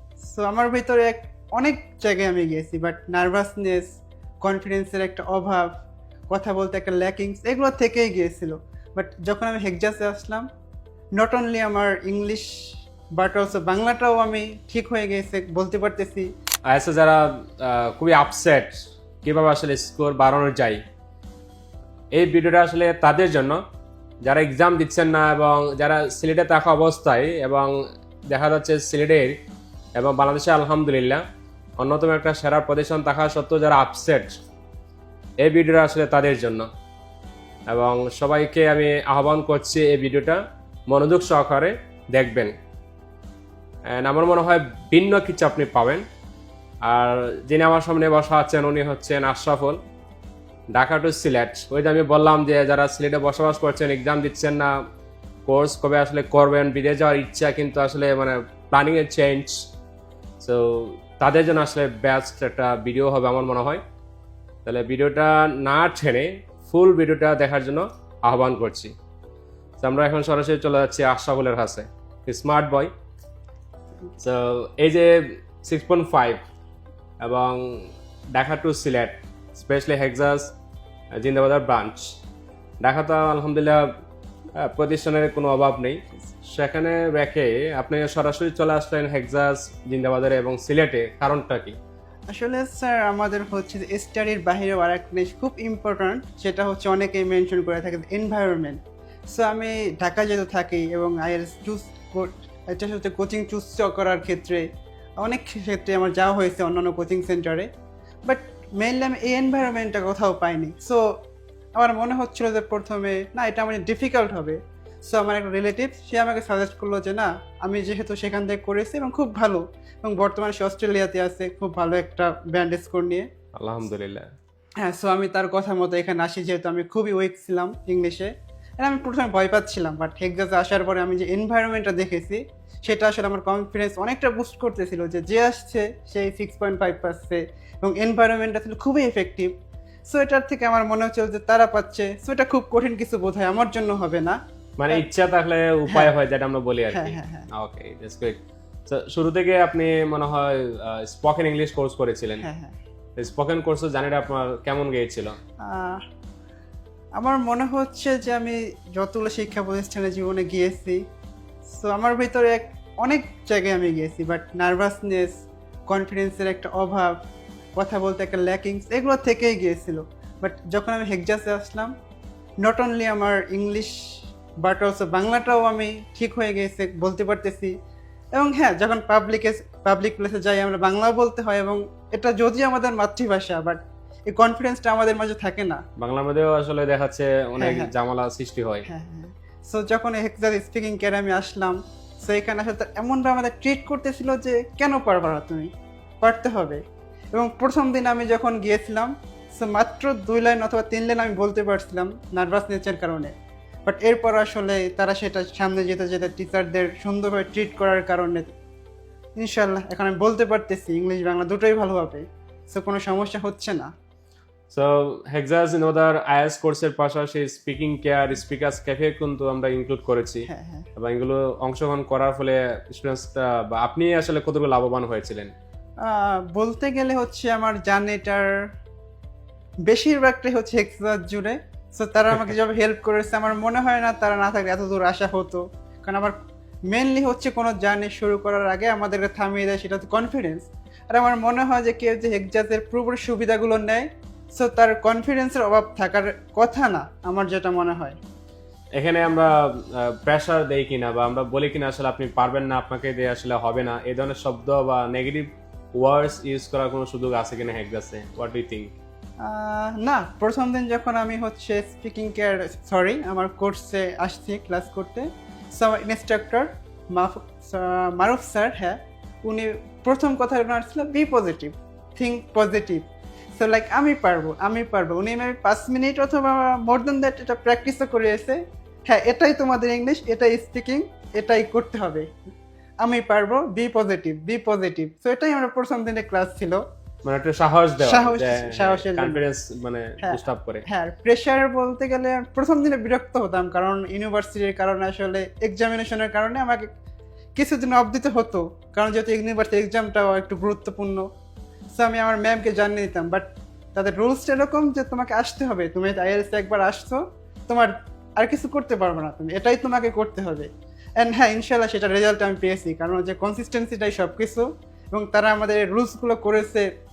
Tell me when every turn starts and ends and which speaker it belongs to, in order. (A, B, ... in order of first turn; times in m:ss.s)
0:00.2-0:10.5 A
0:11.2-0:12.5 A
0:13.2-0:16.3 A
0:16.7-0:20.8 B
0:22.1-0:23.6 B
0:24.3-0:27.7 B
0:28.3-0:29.4 B
0:30.0-0:31.2 B
0:31.8-0:34.3 B
0:35.4-0:36.7 B
0:37.7-0:42.5 B
0:43.9-0:46.0 B
0:46.9-0:49.8 B
0:50.8-0:54.7 B
0:55.5-0:59.6 B
1:00.4-1:03.8 B
1:04.6-1:08.9 B
1:09.8-1:12.9 B
1:14.2-1:16.4 B
1:17.2-1:20.5 B
1:21.2-1:22.0 B
1:22.8-1:23.8 B
1:24.6-1:31.8 B
1:32.3-1:38.8 A
1:39.3-1:44.7 A
1:45.2-1:47.7 A
1:48.3-1:51.0 A
1:51.8-2:03.3 A
2:03.6-2:04.2 B
2:04.8-2:19.5 A
2:20.1-2:24.4 A
2:24.8-2:32.4 B
2:26.9-2:27.5 A
2:32.4-2:32.7 A
2:33.2-2:35.4 B
2:35.6-2:36.0 A
2:37.2-2:41.0 A
2:41.7-2:45.4 A
2:45.9-2:47.2 A
2:47.8-2:51.9 A
2:52.6-2:54.0 A
2:54.6-2:57.7 A
2:58.3-3:05.8 A
3:06.0-3:08.9 B
3:07.6-3:07.9 A
3:08.9-3:15.7 A
3:16.2-3:16.8 A
3:17.3-3:23.3 A
3:23.8-3:28.5 A
3:29.4-3:33.9 A
3:34.7-3:45.5 B
3:40.5-3:40.9 A
3:46.0-3:48.5 A
3:49.9-3:56.3 A
3:56.9-4:08.2 A
4:09.0-4:18.9 B
4:19.4-4:33.0 A
4:33.6-4:42.3 A
4:43.0-4:46.8 A
4:47.2-4:50.8 B
4:48.0-4:49.4 A
4:50.2-4:56.9 A
4:57.6-5:01.3 A
5:01.9-5:16.9 A